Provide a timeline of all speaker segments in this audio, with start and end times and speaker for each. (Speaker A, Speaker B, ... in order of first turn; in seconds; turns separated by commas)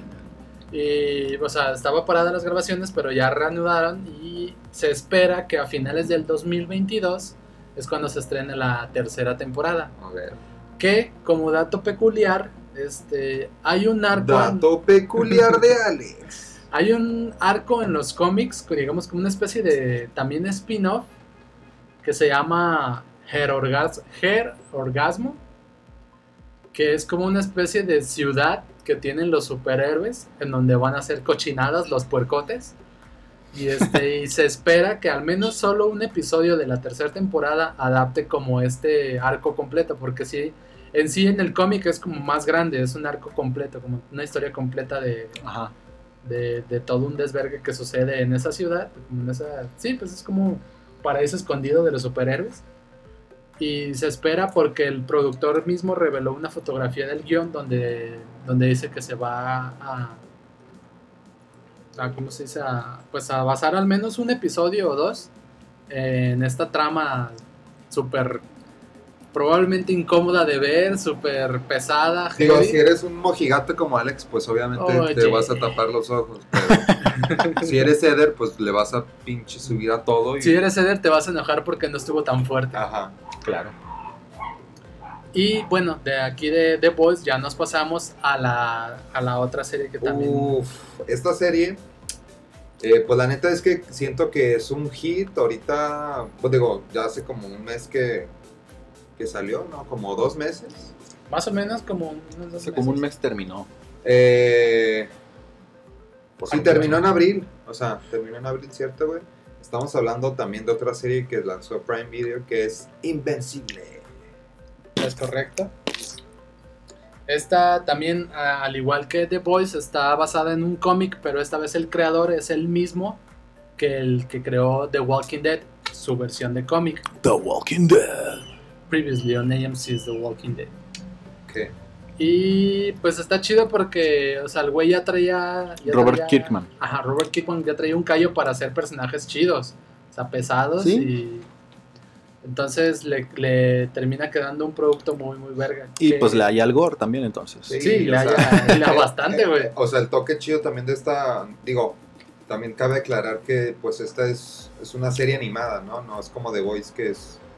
Speaker A: 0.7-9.9, Speaker B: 10.0-10.4, Speaker A: 10.8-14.7, Speaker B: 14.1-16.4, Speaker A: 16.7-21.1, Speaker A: 22.0-25.4, Speaker A: 26.7-32.8, Speaker A: 33.5-45.4, Speaker C: 45.4-45.7, Speaker A: 46.2-52.6, Speaker A: 53.6-60.2, Speaker A: 62.0-65.3, Speaker A: 65.9-68.4, Speaker A: 69.3-72.8, Speaker B: 72.4-80.6, Speaker A: 74.8-75.8, Speaker A: 77.0-77.7, Speaker A: 80.4-82.8, Speaker B: 82.7-83.2, Speaker C: 83.4-83.7, Speaker A: 85.3-90.6, Speaker B: 90.0-91.8, Speaker B: 92.8-98.3, Speaker B: 99.2-100.9, Speaker A: 101.3-103.0, Speaker C: 102.6-103.7, Speaker B: 104.0-105.1, Speaker C: 106.4-107.0, Speaker B: 106.5-114.0, Speaker A: 106.5-107.0, Speaker A: 115.0-115.7, Speaker A: 117.3-123.2, Speaker A: 123.8-127.1, Speaker C: 127.2-128.4, Speaker A: 128.9-130.7, Speaker B: 131.5-131.7, Speaker A: 132.2-141.5, Speaker C: 135.8-136.7, Speaker C: 140.8-141.1, Speaker A: 142.4-146.4, Speaker C: 146.0-147.8, Speaker B: 147.7-157.4, Speaker A: 147.8-149.7